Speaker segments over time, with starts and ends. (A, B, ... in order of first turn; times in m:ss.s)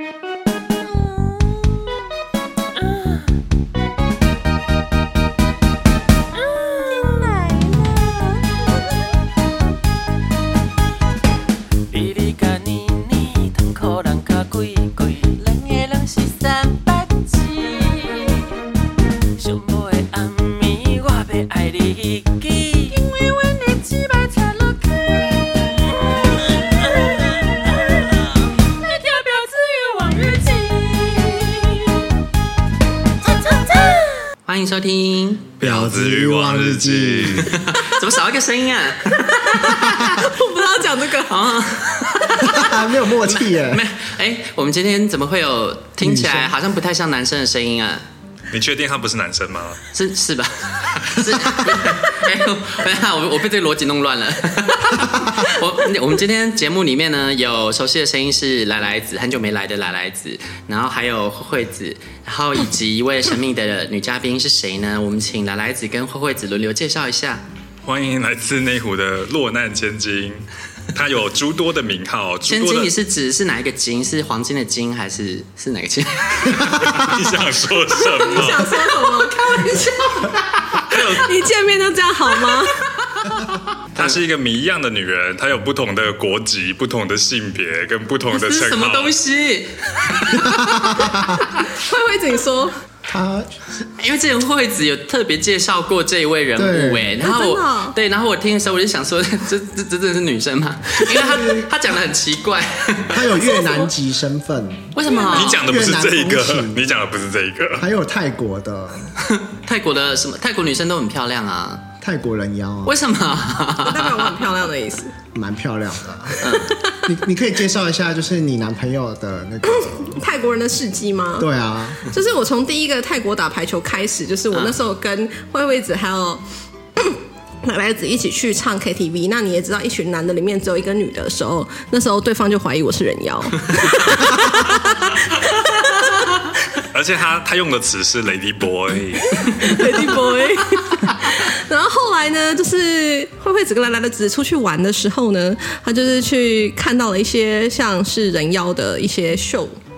0:00.9-0:01.9 A
0:02.8-0:03.2 A
0:06.3-0:09.1 A
0:11.9-0:18.5 A
0:19.4-0:32.2 A
0:33.2-0:34.2 A
0:34.5-0:35.5 B
0:35.6-0:37.5 C
0:35.6-0:37.5 D
0:37.5-0:40.2 B
0:39.2-0:41.5 E
0:41.2-0:42.6 B
0:42.1-0:42.8 E
0:42.4-0:43.8 D
0:43.2-0:48.0 B
0:46.0-0:46.5 D
0:48.5-0:49.8 C
0:49.9-1:07.4 B
1:07.8-1:12.9 C
1:12.5-1:16.8 B
1:16.6-1:19.1 C
1:18.0-1:22.9 E
1:20.7-1:21.4 C
1:23.9-1:29.1 C
1:28.3-1:30.5 B
1:30.2-1:32.7 E
1:30.5-1:31.4 D
1:33.1-1:33.6 D
1:34.0-1:43.6 B
1:36.6-1:37.1 D
1:37.1-1:38.0 E
1:41.1-1:41.7 D
1:43.0-1:46.8 D
1:43.5-1:43.8 E
1:45.0-1:45.6 B
1:45.0-1:45.6 E
1:45.2-1:47.9 C
1:47.8-1:49.1 D
1:49.2-1:51.8 B
1:52.0-1:53.0 D
1:52.8-1:54.4 B
1:53.7-1:55.2 E
1:55.3-2:00.2 D
1:56.4-1:56.8 B
1:56.4-1:57.1 E
1:59.7-2:01.5 E
2:01.4-2:02.0 D
2:02.0-2:06.4 E
2:04.5-2:04.8 B
2:07.0-2:16.3 E
2:16.9-2:19.9 C
2:19.4-2:29.8 E